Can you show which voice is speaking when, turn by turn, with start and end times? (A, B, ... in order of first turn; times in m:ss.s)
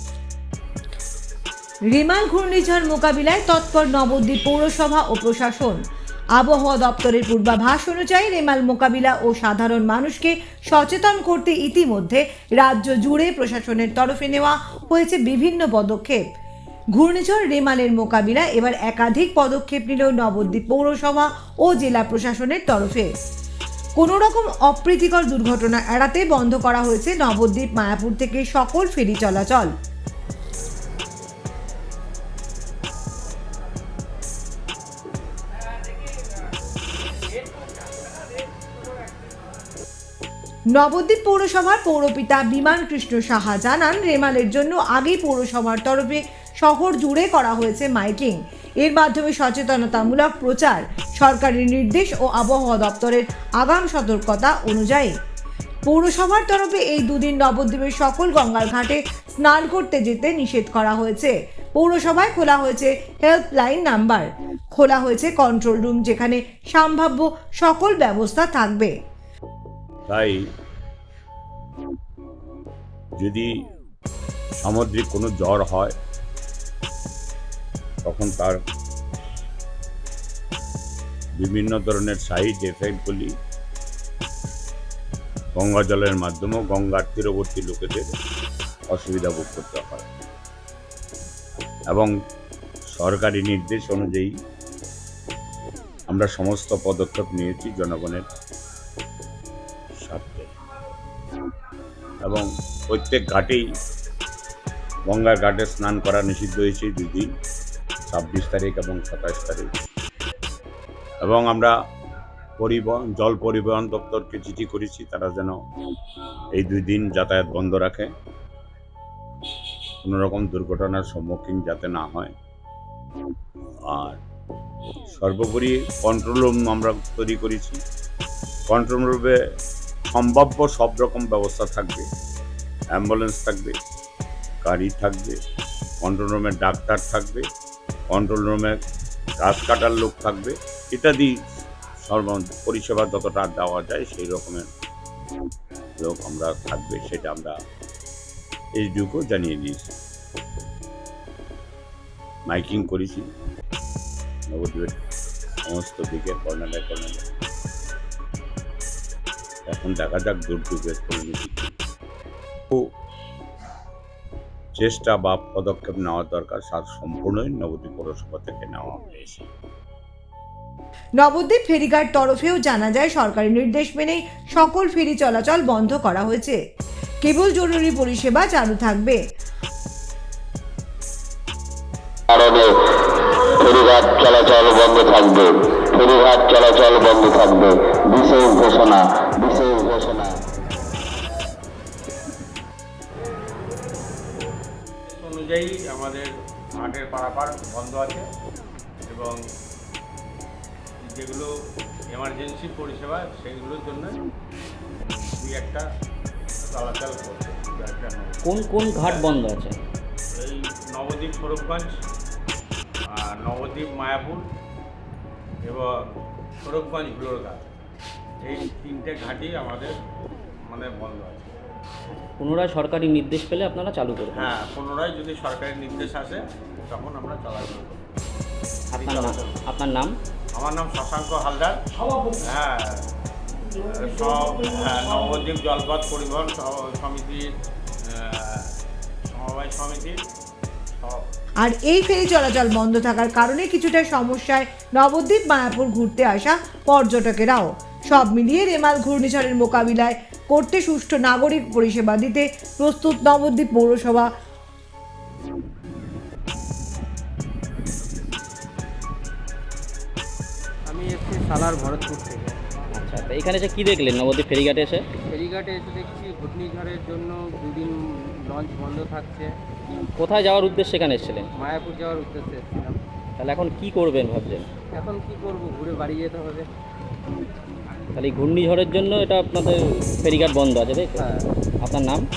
0:01.9-0:05.8 A
0:06.4-0:16.2 A
0:17.0-0:23.1 A
0:24.0-0:29.7 A
0:40.7-0:55.1 A
0:55.9-1:09.0 A
1:10.1-1:10.4 B
1:13.2-1:13.5 B
1:14.6-1:15.9 B
1:18.0-1:18.6 B
1:21.4-1:23.3 B
1:25.6-1:28.1 B
1:28.9-1:30.1 B
1:32.9-1:34.4 B
1:36.1-1:38.2 B
1:40.0-1:40.5 B
1:42.2-1:43.6 B
1:45.1-1:47.3 B
1:48.1-1:49.7 B
1:51.2-1:51.7 B
1:52.6-1:55.6 B
1:56.6-1:58.1 B
2:00.0-2:02.3 B
2:03.9-2:04.2 B
2:05.1-2:07.8 B
2:08.7-2:09.4 B
2:10.1-2:12.0 B
2:12.9-2:13.8 B
2:14.6-2:15.4 B
2:16.0-2:17.4 B
2:18.1-2:18.8 B
2:19.4-2:21.3 B
2:22.1-2:24.7 B
2:26.0-2:27.5 B
2:28.8-2:29.9 B
2:32.5-2:33.3 B
2:34.5-2:35.0 B
2:35.7-2:37.2 B
2:39.7-2:41.7 B
2:44.8-2:49.4 B
2:51.2-2:56.6 A
2:57.2-2:59.2 A
3:02.3-3:02.8 C
3:03.5-3:10.4 C
3:15.1-3:18.3 D
3:19.1-3:19.4 D
3:21.0-3:21.5 D
3:22.1-3:24.2 D
3:25.0-3:25.8 D
3:26.6-3:28.4 D
3:28.4-3:29.8 E
3:30.4-3:31.9 D
3:33.1-3:34.4 D
3:36.6-3:37.7 D
3:38.4-3:40.0 D
3:40.7-3:41.5 D
3:42.4-3:44.5 E
3:44.3-3:48.1 D
3:48.9-3:50.1 E
3:49.0-3:49.6 D
3:50.6-3:51.8 D
3:52.4-3:53.0 D
3:53.7-3:57.4 D
3:58.0-3:58.7 D
3:59.2-4:00.2 D
4:01.0-4:01.3 D
4:01.6-4:14.3 A
4:20.9-4:22.6 F
4:22.9-4:25.0 E
4:25.3-4:28.0 F
4:28.5-4:29.5 F
4:30.2-4:31.5 E
4:31.6-4:33.0 F
4:33.4-4:34.7 E
4:34.9-4:36.7 F
4:38.2-4:41.3 E
4:41.2-4:41.5 F
4:41.8-4:42.2 E